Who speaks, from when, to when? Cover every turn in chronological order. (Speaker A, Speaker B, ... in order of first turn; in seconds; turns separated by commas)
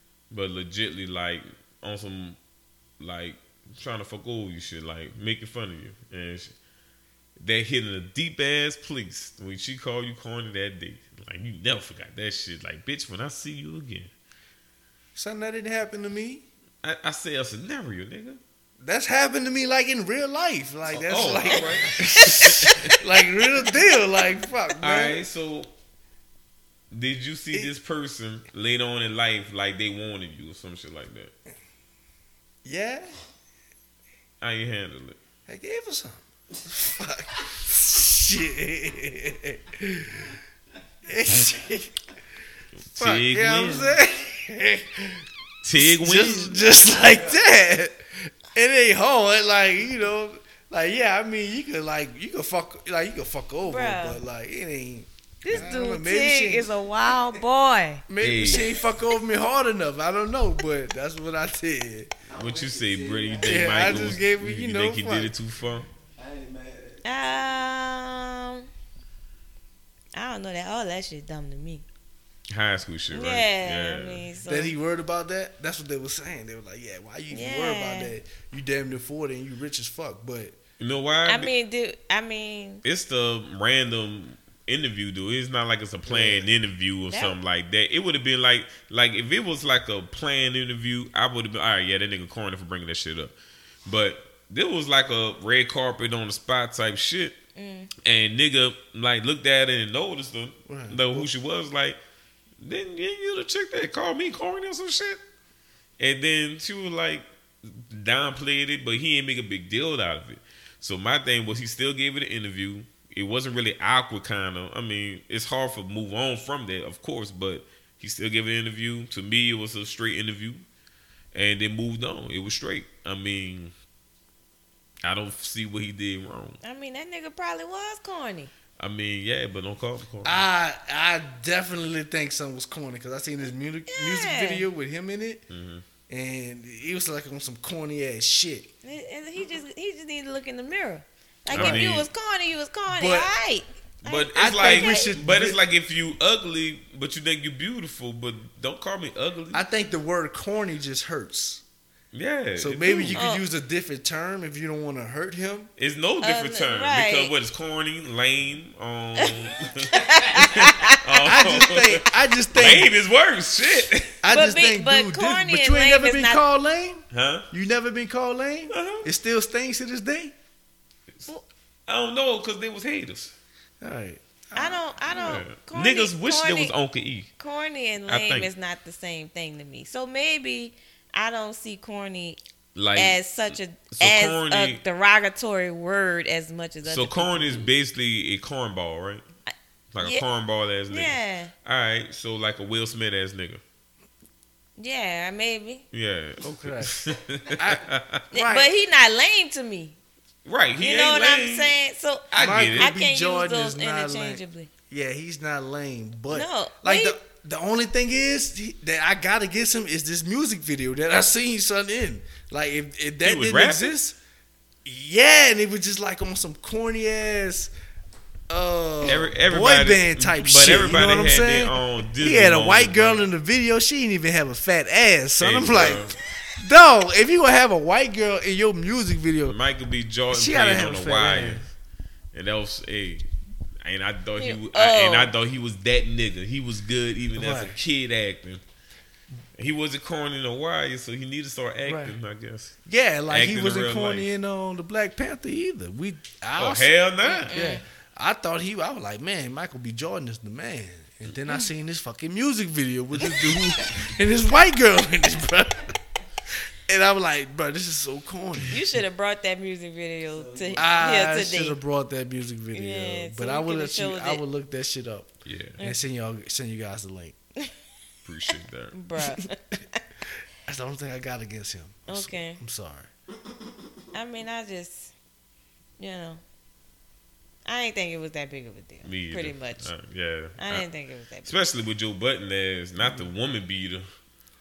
Speaker A: 0.3-2.4, Speaker A: 3.0-6.5, Speaker A: 7.4-14.1, Speaker B: 15.2-16.4, Speaker A: 16.8-18.4, Speaker B: 18.8-25.2, Speaker A: 20.9-23.0, Speaker A: 24.8-25.7, Speaker A: 26.9-31.3, Speaker B: 32.6-33.2, Speaker A: 34.4-35.2, Speaker B: 35.5-40.4, Speaker B: 41.0-42.0, Speaker A: 42.9-44.0, Speaker B: 43.0-45.2, Speaker A: 45.6-46.6, Speaker B: 45.8-56.7, Speaker C: 46.9-47.4, Speaker D: 53.6-54.2, Speaker D: 55.4-58.0, Speaker B: 58.1-62.1, Speaker A: 58.2-58.7, Speaker C: 62.3-64.2, Speaker A: 62.4-65.9, Speaker B: 63.4-65.3, Speaker C: 66.2-67.0, Speaker D: 67.0-68.7, Speaker D: 70.1-71.8, Speaker A: 72.5-74.2, Speaker D: 73.1-74.7, Speaker B: 74.4-80.6, Speaker D: 77.3-78.1, Speaker A: 80.8-81.5, Speaker D: 81.2-82.8, Speaker A: 82.8-93.3, Speaker B: 86.0-86.5, Speaker D: 87.1-87.4, Speaker A: 93.8-97.4, Speaker D: 97.5-97.9, Speaker A: 98.0-102.0, Speaker B: 100.7-101.3, Speaker A: 102.6-105.2, Speaker A: 106.0-120.6, Speaker A: 121.3-123.7, Speaker A: 125.0-126.6, Speaker D: 126.6-128.5, Speaker A: 128.8-130.4, Speaker B: 130.2-135.4, Speaker D: 133.9-134.7, Speaker A: 135.5-135.8, Speaker B: 136.1-138.7, Speaker D: 138.8-145.1, Speaker A: 141.5-142.1, Speaker B: 141.5-141.9, Speaker B: 142.9-143.3, Speaker A: 144.0-149.6, Speaker B: 144.3-145.6, Speaker B: 149.5-151.6, Speaker A: 152.1-153.2, Speaker B: 152.6-155.7, Speaker D: 153.1-153.4, Speaker A: 155.8-164.2, Speaker D: 156.2-157.3, Speaker D: 159.9-161.2, Speaker B: 161.2-162.9, Speaker B: 164.2-170.3, Speaker D: 164.3-166.4, Speaker A: 167.1-167.5, Speaker A: 168.7-169.1, Speaker A: 171.9-173.3, Speaker B: 173.8-174.8, Speaker D: 174.5-176.7, Speaker A: 175.1-177.3, Speaker D: 177.4-182.4, Speaker A: 178.1-178.5, Speaker A: 182.7-184.8, Speaker D: 182.9-187.7, Speaker A: 186.8-189.2, Speaker D: 189.5-190.2, Speaker A: 189.9-193.6, Speaker D: 190.9-191.5, Speaker D: 194.8-195.8, Speaker A: 195.9-198.2, Speaker B: 196.4-196.9, Speaker B: 197.5-198.7, Speaker D: 198.3-200.0, Speaker A: 200.4-201.7, Speaker D: 200.8-204.7, Speaker A: 202.3-202.9, Speaker B: 202.3-214.2, Speaker D: 206.3-207.2, Speaker A: 213.2-213.9, Speaker B: 214.8-217.7, Speaker B: 218.5-229.6, Speaker A: 219.0-223.2, Speaker A: 225.4-226.2, Speaker A: 229.5-231.7, Speaker B: 230.3-231.7, Speaker A: 232.3-233.2, Speaker A: 233.8-238.6, Speaker D: 234.4-235.3, Speaker B: 237.3-237.8, Speaker A: 239.6-242.7, Speaker B: 241.8-242.1, Speaker B: 242.8-246.9, Speaker A: 243.3-244.3, Speaker A: 246.5-247.7, Speaker D: 247.2-247.8, Speaker B: 247.5-256.0, Speaker B: 256.5-258.8, Speaker D: 258.7-261.8, Speaker C: 260.3-261.3, Speaker B: 260.8-267.4, Speaker D: 262.7-264.4, Speaker A: 265.4-265.8, Speaker A: 268.2-268.9, Speaker D: 268.9-270.0, Speaker B: 270.6-273.1, Speaker D: 272.1-272.6, Speaker D: 274.1-275.1, Speaker D: 276.0-276.4, Speaker D: 277.6-279.9, Speaker A: 279.0-280.8, Speaker D: 280.6-281.5, Speaker A: 281.4-284.1, Speaker B: 283.0-283.3